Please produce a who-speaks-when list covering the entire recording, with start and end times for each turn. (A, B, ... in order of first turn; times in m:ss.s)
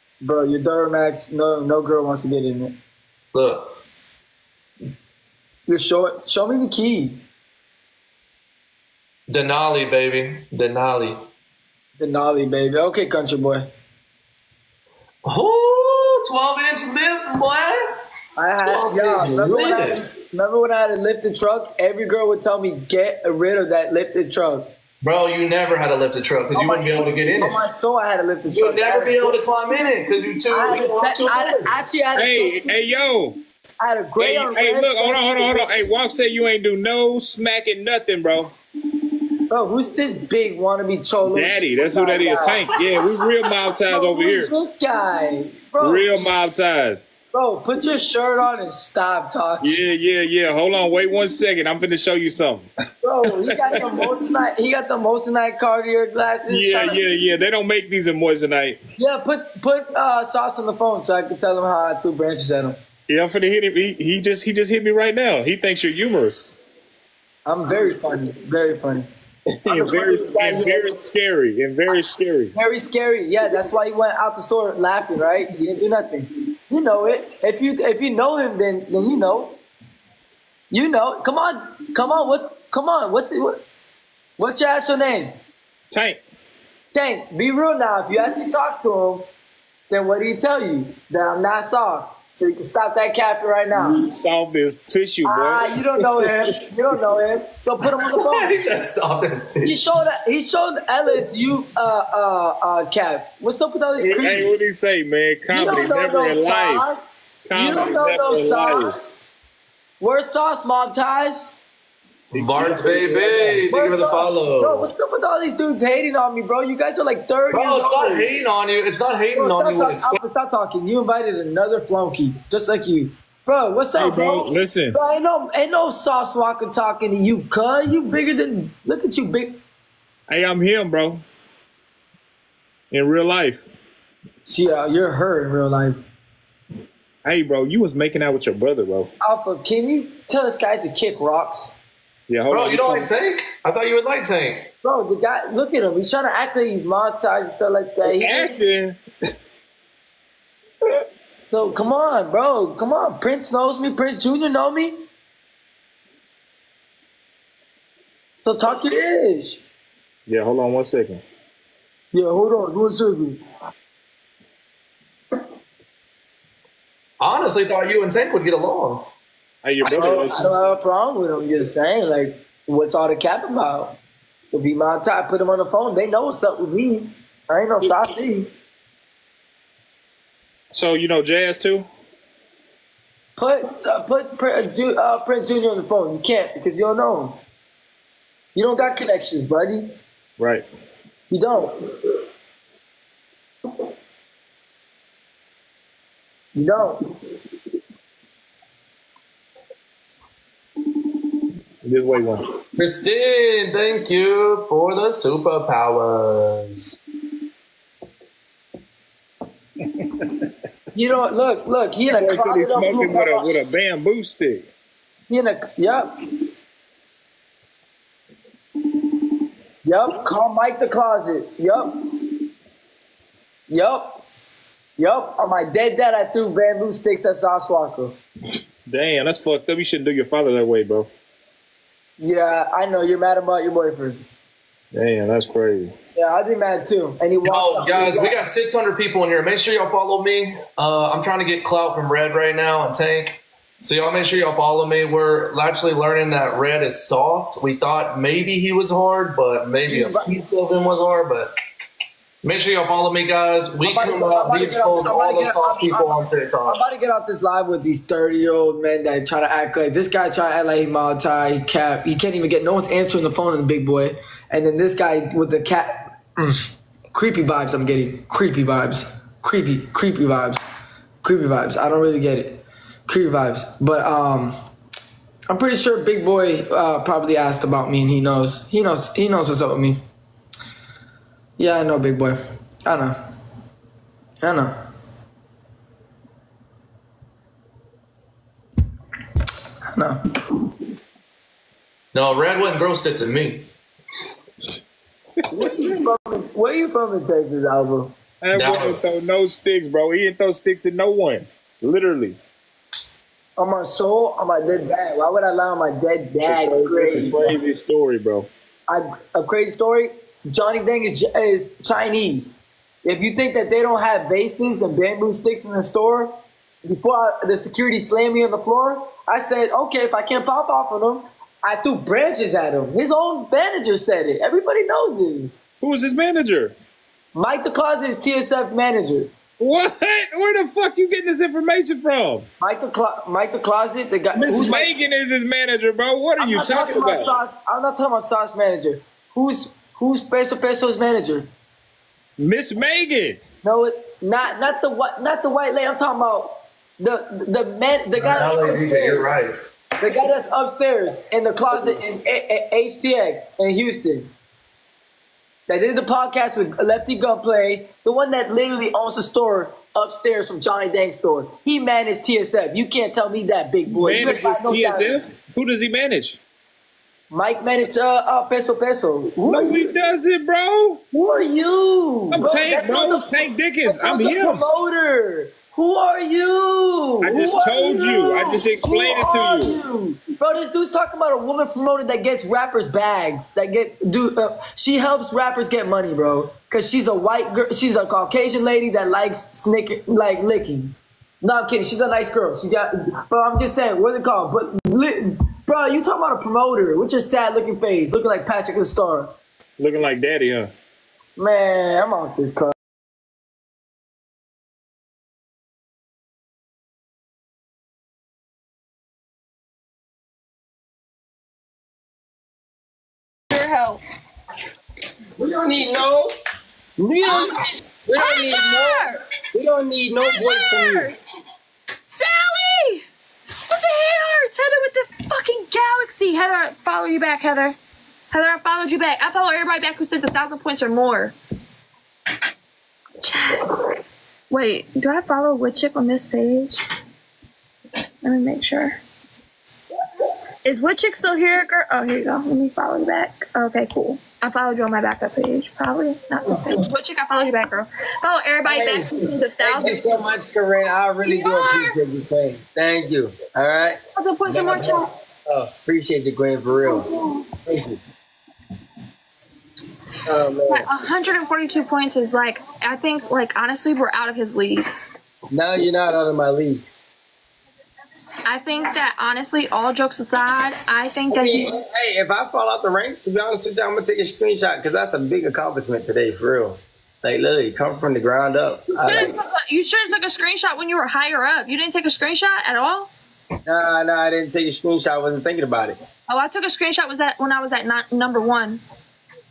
0:00.2-0:02.8 A
0:03.3-0:03.8 B
0:05.7-0:07.2 A
0:09.3-0:11.2 B
0:12.0-0:13.7 A
0:15.2-0:17.9 B
0:18.4-0:24.7 A
0:18.6-0:20.0 B
0:25.0-0:27.6 B
0:26.5-0:29.4 A
0:28.5-0:31.7 B
0:30.5-0:32.9 A
0:32.2-0:33.4 C
0:33.8-0:36.0 A
0:34.2-0:38.5 C
0:39.5-0:43.0 A
0:41.3-0:44.5 C
0:43.9-0:46.5 A
0:45.8-0:47.1 C
0:47.3-0:49.8 A
0:49.6-0:52.7 C
0:53.0-0:57.1 A
0:53.2-0:54.2 C
0:56.5-0:58.8 C
0:59.0-1:02.8 A
1:03.1-1:06.6 C
1:07.5-1:09.1 A
1:09.6-1:12.6 C
1:09.7-1:11.0 A
1:12.6-1:19.6 A
1:20.7-1:23.6 A
1:24.4-1:25.4 A
1:25.9-1:26.2 C
1:26.9-1:29.3 A
1:29.9-1:34.1 A
1:33.7-1:36.6 C
1:35.2-1:38.7 A
1:38.0-1:39.8 B
1:39.6-1:44.6 A
1:44.0-1:46.9 C
1:45.5-1:49.2 A
1:47.5-1:49.0 C
1:50.0-1:51.5 A
1:52.3-1:54.9 B
1:52.3-1:52.8 C
1:52.6-1:58.3 A
1:57.5-2:00.2 B
1:59.4-2:09.6 A
2:03.9-2:05.0 C
2:10.3-2:11.2 C
2:12.9-2:13.6 C
2:14.5-2:16.0 A
2:17.2-2:19.1 C
2:19.2-2:21.7 A
2:22.3-2:23.1 C
2:22.5-2:24.7 B
2:24.8-2:28.6 A
2:28.0-2:29.0 C
2:31.5-2:35.0 A
2:38.4-2:39.6 A
2:40.3-2:41.2 C
2:42.1-2:43.4 A
2:47.2-2:49.1 B
2:49.6-2:50.6 C
2:49.8-2:54.0 A
2:54.5-2:58.5 A
3:00.7-3:01.9 C
3:03.4-3:07.4 A
3:08.6-3:10.0 A
3:10.4-3:10.6 C
3:11.3-3:12.0 A
3:16.6-3:17.1 A
3:21.8-3:22.4 C
3:22.8-3:27.0 B
3:30.9-3:33.6 A
3:32.1-3:34.6 C
3:35.3-3:36.2 A
3:39.8-3:42.1 A
3:43.7-3:44.2 A
3:45.0-3:48.2 A
3:48.9-3:51.1 C
3:52.2-3:54.2 A
3:54.9-3:55.9 C
3:56.2-3:58.4 A
3:57.4-4:11.5 B
4:09.9-4:10.4 A
4:12.4-4:16.8 B
4:13.8-4:30.6 A
4:31.2-4:34.6 A
4:35.5-4:40.0 A
4:41.6-4:43.2 A
4:44.4-4:44.8 A
4:49.9-4:50.2 A
4:52.1-4:53.7 B
4:55.5-4:58.1 A
4:55.6-4:56.0 C
4:58.4-5:02.4 C
4:58.5-4:59.2 B
5:03.6-5:07.6 A
5:06.5-5:08.5 C
5:08.9-5:25.6 A
5:25.8-5:26.8 C
5:27.3-5:29.3 A
5:29.6-5:32.5 C
5:32.6-5:35.0 A
5:34.3-5:37.3 C
5:36.4-5:41.5 A
5:42.4-5:43.4 C
5:43.6-5:49.3 A
5:48.2-5:49.6 B
5:50.0-5:54.3 A
5:55.7-6:05.2 A
6:03.9-6:06.4 C
6:07.3-6:10.1 A
6:09.4-6:11.0 C
6:11.1-6:39.3 A
6:12.3-6:14.6 C
6:17.2-6:19.8 C
6:39.8-6:40.7 C
6:41.4-6:42.7 A
6:53.5-6:54.0 D
6:55.4-6:56.3 E
6:57.0-6:57.5 E
6:57.2-6:57.6 D
6:58.1-7:01.1 E
6:58.1-6:59.2 D
7:00.2-7:01.2 D
7:02.1-7:03.0 D
7:03.7-7:07.8 D
7:08.3-7:11.4 D
7:13.2-7:14.0 D
7:14.5-7:16.8 D
7:18.2-7:19.0 D
7:20.6-7:30.3 D
7:28.7-7:37.1 E
7:31.3-7:32.0 D
7:34.2-7:35.1 D
7:36.9-7:37.5 D
7:37.6-7:38.0 E
7:40.3-7:40.9 E
7:40.7-7:44.9 D
7:45.5-7:46.8 E
7:48.4-7:51.7 D
7:51.3-7:59.4 E
7:59.0-8:03.1 D
8:03.7-8:06.0 E
8:06.3-8:08.8 D